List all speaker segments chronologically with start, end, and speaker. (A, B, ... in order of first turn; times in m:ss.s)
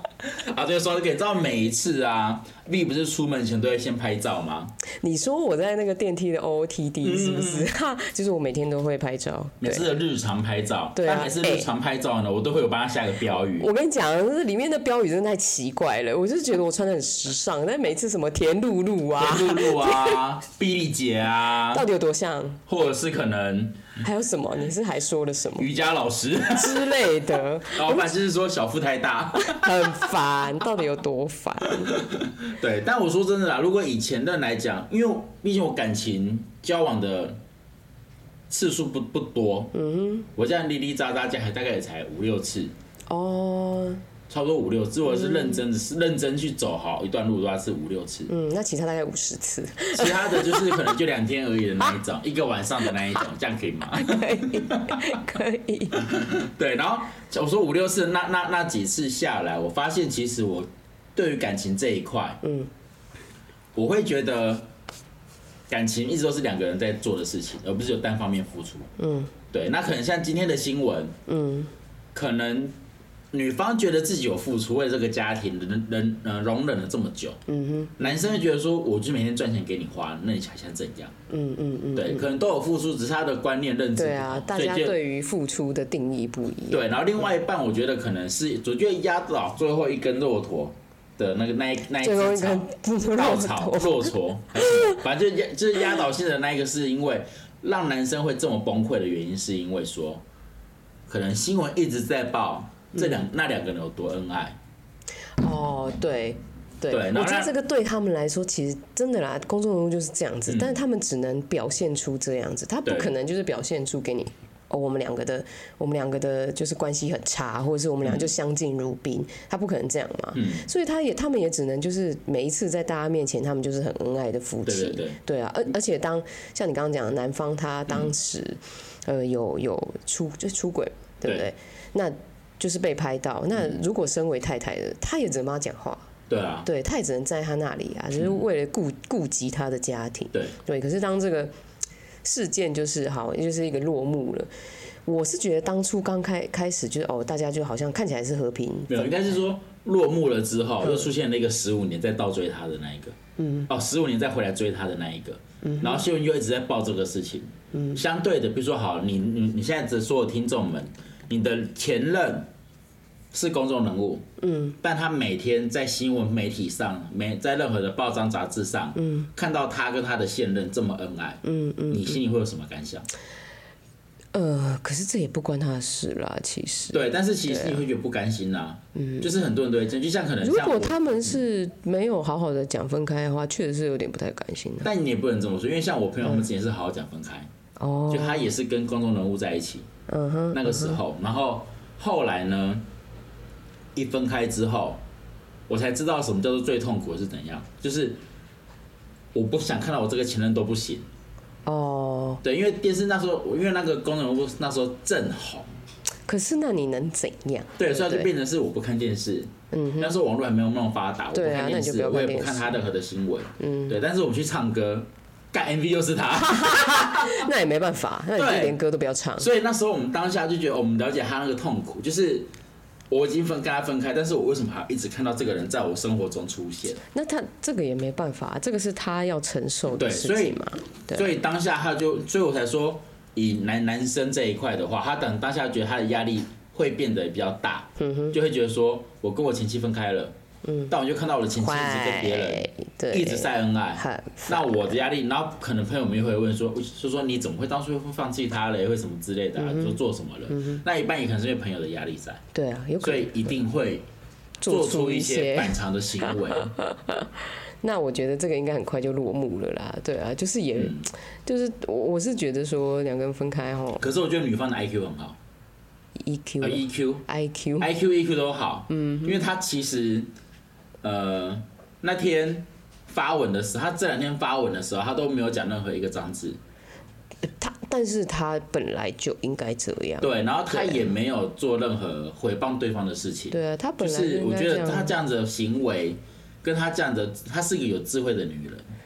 0:00.2-0:04.7 A
0:05.0-0:09.8 B
0:07.0-0:07.7 A
0:09.6-0:13.7 A
0:10.9-0:11.7 B
0:13.6-0:20.2 B
0:19.2-0:21.8 A
0:21.7-0:22.6 B
0:22.7-0:24.0 A
0:24.0-0:25.7 B
0:25.6-0:27.0 A
0:26.5-0:28.1 B
0:27.7-0:30.1 A
0:29.3-0:32.0 B
0:31.9-0:37.4 A
0:38.5-0:39.7 A
0:39.7-0:40.3 B
0:40.4-0:42.7 A
0:43.1-0:44.0 B
0:44.3-0:48.3 A
0:45.1-0:45.6 B
0:48.3-0:51.0 B
0:49.9-0:54.8 A
0:53.9-0:56.0 B
0:56.0-1:02.4 A
1:02.4-1:02.7 B
1:03.8-1:04.7 A
1:05.7-1:08.9 A
1:09.0-1:09.3 B
1:09.5-1:11.1 A
1:11.3-1:11.7 B
1:12.1-1:12.8 A
1:13.3-1:17.4 A
1:17.5-1:18.1 B
1:18.0-1:21.1 A
1:21.3-1:22.3 B
1:22.0-1:25.0 A
1:24.0-1:26.9 B
1:26.7-1:40.2 A
1:32.0-1:35.0 B
1:41.1-1:44.6 A
1:45.4-2:16.0 B
1:46.9-1:47.5 A
1:50.5-1:50.8 A
1:52.8-1:53.1 A
1:58.0-1:58.3 A
2:00.3-2:00.7 A
2:04.6-2:05.2 A
2:13.5-2:13.8 A
2:16.3-2:16.7 A
2:16.6-2:21.5 B
2:18.1-2:18.4 A
2:22.2-2:24.5 B
2:25.0-2:29.3 B
2:28.9-2:33.1 A
2:30.8-2:31.1 B
2:33.4-2:33.7 B
2:33.7-2:42.5 A
2:35.6-2:36.0 B
2:37.7-2:38.0 B
2:43.3-2:44.2 A
2:44.4-2:44.8 B
2:44.8-2:53.1 A
2:49.0-2:49.3 B
2:51.4-2:52.2 B
2:54.3-2:57.8 B
2:56.9-3:01.4 A
2:58.9-2:59.3 B
3:00.4-3:04.9 B
3:04.8-3:07.5 A
3:07.8-3:08.5 B
3:08.1-3:09.8 A
3:10.1-3:11.0 B
3:10.5-3:12.8 A
3:13.9-3:15.0 A
3:15.7-3:18.2 A
3:19.3-3:21.0 A
3:21.6-3:22.4 B
3:22.4-3:25.7 A
3:26.3-3:28.3 B
3:27.8-3:37.5 A
3:29.7-3:30.2 B
3:31.3-3:32.8 B
3:33.6-3:33.9 B
3:36.4-3:39.5 B
3:38.4-3:38.8 A
3:39.4-3:42.5 A
3:43.1-3:47.0 A
3:47.1-3:51.2 B
3:49.9-4:00.3 A
3:58.0-3:58.4 B
4:00.6-4:00.9 B
4:00.9-4:12.4 A
4:01.6-4:04.9 B
4:09.6-4:10.0 B
4:10.5-4:10.8 B
4:12.5-4:13.6 B
4:13.0-4:14.0 A
4:14.6-4:15.8 B
4:14.6-4:16.7 A
4:16.3-4:17.3 B
4:17.8-4:24.1 B
4:20.8-4:21.1 A
4:24.0-4:25.4 A
4:26.2-4:27.9 B
4:26.6-4:27.2 A
4:27.8-4:30.3 A
4:28.9-4:29.5 B
4:31.0-4:36.6 A
4:37.4-4:41.1 B
4:40.2-4:48.8 A
4:43.5-4:45.1 B